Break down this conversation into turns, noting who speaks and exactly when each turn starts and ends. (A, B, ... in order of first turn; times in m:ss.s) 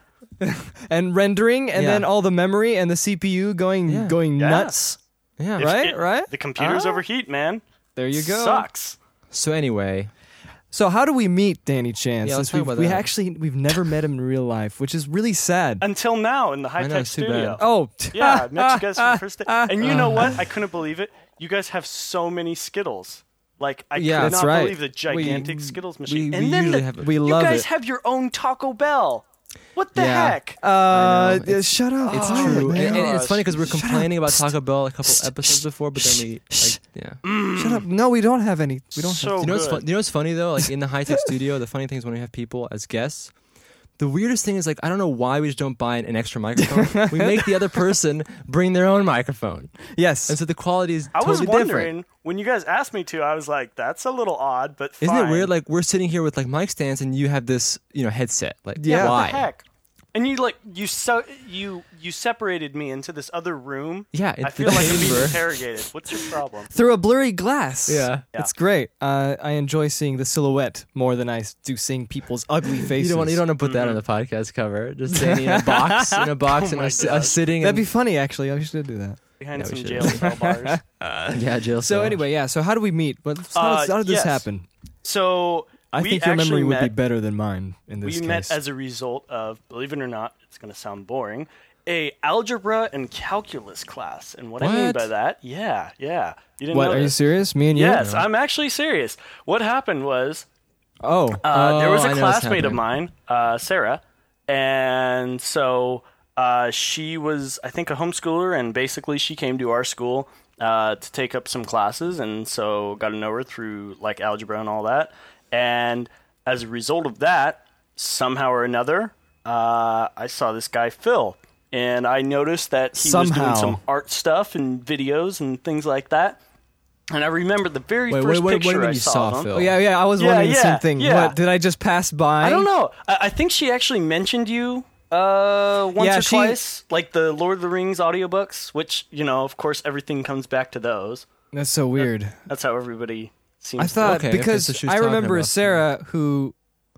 0:00.4-0:05.0 A
0:01.7-0:02.1 B
0:03.9-0:04.2 B
0:04.4-0:04.8 C
0:05.4-0:05.8 B
0:05.6-0:07.0 A
0:05.6-0:07.6 C
0:08.0-0:08.6 A
0:08.1-0:09.0 C
0:09.3-0:10.1 B
0:10.7-0:15.8 A
0:12.2-0:13.1 B
0:15.8-0:29.2 C
0:16.8-0:17.6 B
0:17.6-0:20.3 A
0:19.8-0:20.4 B
0:23.9-0:24.4 B
0:24.1-0:25.5 A
0:25.1-0:27.2 B
0:27.0-0:27.6 A
0:29.8-0:30.6 C
0:29.9-0:37.2 B
0:30.6-0:34.5 A
0:32.1-0:33.5 C
0:35.0-0:36.8 A
0:37.2-0:37.8 C
0:37.5-0:39.5 A
0:39.0-0:39.8 C
0:39.4-0:43.3 B
0:44.0-0:51.9 B
0:46.6-0:47.5 A
0:49.9-0:50.4 A
0:51.1-0:55.5 C
0:55.0-0:59.5 B
0:58.8-0:59.2 A
0:58.8-1:06.7 C
1:04.1-1:05.5 B
1:06.7-1:13.4 A
1:07.9-1:08.2 B
1:12.9-1:17.9 B
1:13.6-1:14.0 C
1:15.1-1:16.3 A
1:16.5-1:17.4 C
1:17.6-1:19.2 A
1:19.4-1:20.8 C
1:19.6-1:20.3 B
1:20.0-1:24.6 A
1:21.3-1:22.2 B
1:23.5-1:24.4 C
1:25.0-1:26.9 C
1:25.9-1:28.6 A
1:28.0-1:37.2 C
1:34.6-1:35.1 B
1:36.7-1:38.0 A
1:37.7-1:40.4 C
1:37.9-1:38.3 B
1:41.0-1:41.4 A
1:41.4-2:06.4 C
1:41.4-1:42.8 B
2:03.0-2:03.8 A
2:07.1-2:09.5 C
2:08.1-2:09.8 B
2:09.5-2:12.7 A
2:10.2-2:11.4 C
2:12.4-2:21.2 C
2:16.0-2:16.6 A
2:21.5-2:22.4 A
2:22.0-2:24.2 C
2:23.8-2:26.5 A
2:24.0-2:25.8 B